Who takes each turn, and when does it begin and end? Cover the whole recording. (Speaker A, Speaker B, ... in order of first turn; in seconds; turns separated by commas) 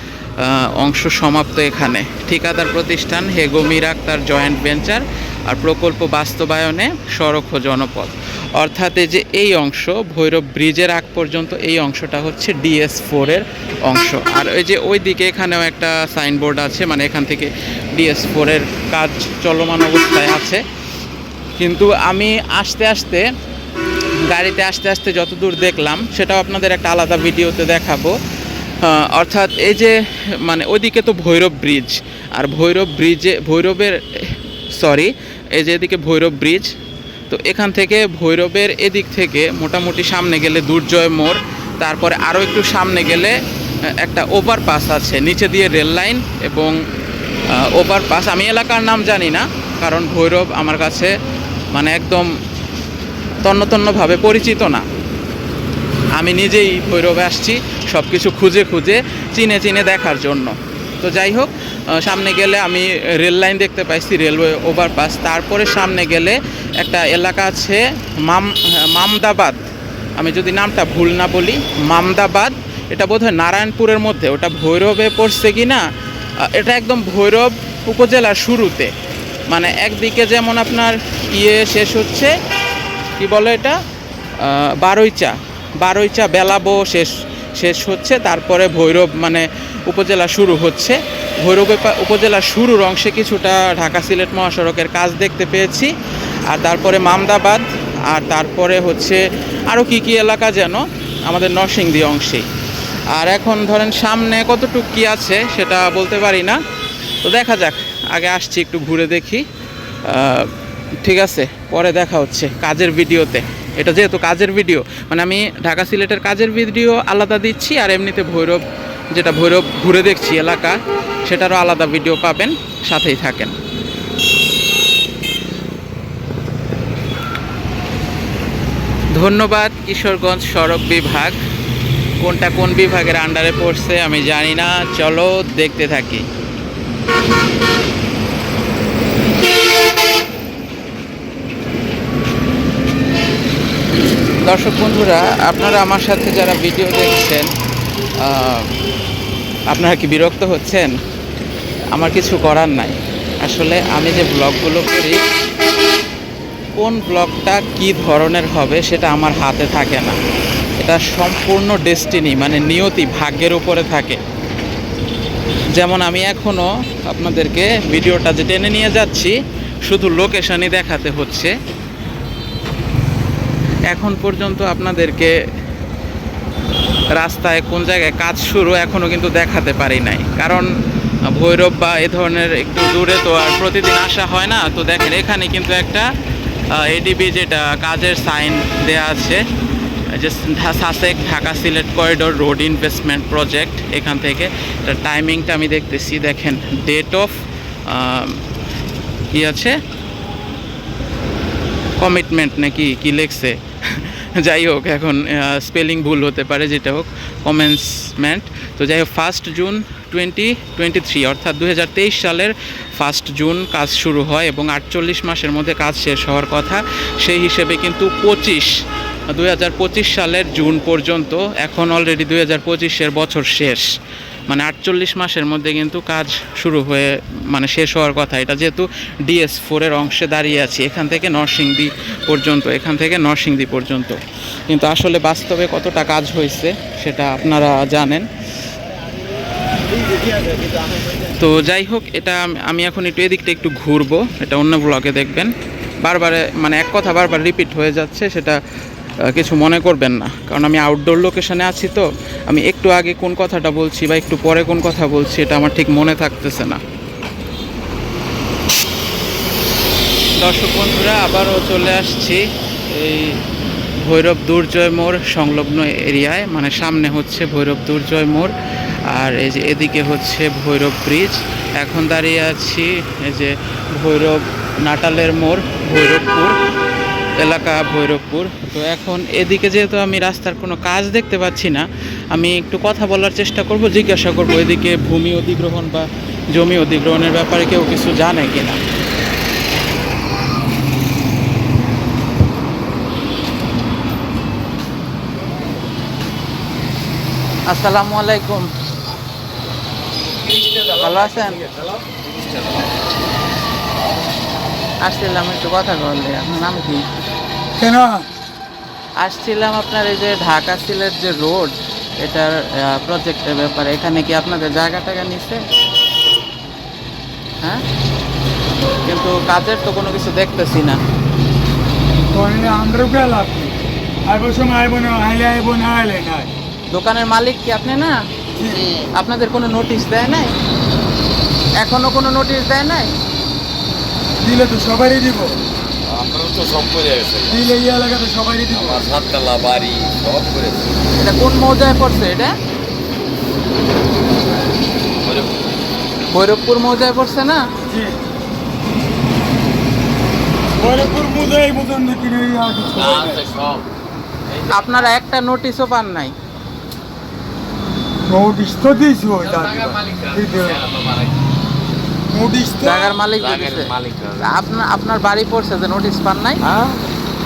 Speaker A: 0.4-20.6, Speaker A: 21.6-23.3, Speaker A: 24.2-28.1, Speaker A: 28.8-36.7, Speaker A: 37.3-43.4, Speaker A: 44.0-46.8, Speaker A: 47.5-51.1, Speaker A: 51.7-52.3, Speaker A: 53.4-54.9, Speaker A: 56.1-69.6, Speaker A: 70.2-75.8, Speaker A: 76.4-78.9, Speaker A: 79.5-82.3, Speaker A: 83.2-83.8, Speaker A: 84.4-95.9, Speaker A: 96.5-102.5, Speaker A: 103.1-106.6, Speaker A: 107.2-109.4, Speaker A: 110.0-123.5, Speaker A: 129.1-131.3, Speaker A: 132.2-136.2, Speaker A: 144.4-147.5, Speaker A: 148.2-148.7, Speaker A: 149.7-150.9, Speaker A: 151.9-155.2, Speaker A: 156.8-160.2, Speaker A: 160.8-164.2, Speaker A: 165.7-171.5, Speaker A: 173.9-175.3, Speaker A: 177.1-180.7, Speaker A: 181.3-186.1, Speaker A: 186.7-189.4, Speaker A: 190.1-198.4, Speaker A: 199.3-199.8, Speaker A: 202.0-218.7, Speaker A: 219.3-223.8, Speaker A: 224.5-238.3, Speaker A: 241.1-245.5, Speaker A: 246.0-248.6, Speaker A: 249.2-256.8, Speaker A: 260.4-263.4, Speaker A: 263.9-268.5, Speaker A: 269.1-276.6, Speaker A: 277.4-288.8, Speaker A: 297.6-298.7, Speaker B: 300.5-302.6, Speaker A: 300.9-301.7, Speaker A: 305.0-307.0, Speaker C: 307.8-308.2, Speaker A: 309.2-315.6, Speaker A: 319.1-321.0, Speaker C: 322.3-323.7, Speaker C: 324.2-326.5, Speaker A: 326.9-328.2, Speaker C: 328.6-328.9, Speaker A: 329.1-330.5, Speaker A: 331.8-333.1, Speaker C: 334.4-335.6, Speaker B: 336.1-337.7, Speaker C: 337.5-339.0, Speaker B: 338.7-340.9, Speaker A: 341.1-342.6, Speaker B: 345.2-345.5, Speaker A: 346.3-347.6, Speaker C: 347.9-348.2, Speaker C: 350.8-353.4, Speaker B: 352.9-353.8, Speaker B: 354.5-355.0, Speaker A: 354.7-356.3, Speaker C: 358.3-360.8, Speaker B: 359.4-361.4, Speaker C: 362.3-363.1, Speaker A: 362.8-366.6, Speaker B: 363.3-364.5, Speaker B: 366.6-367.0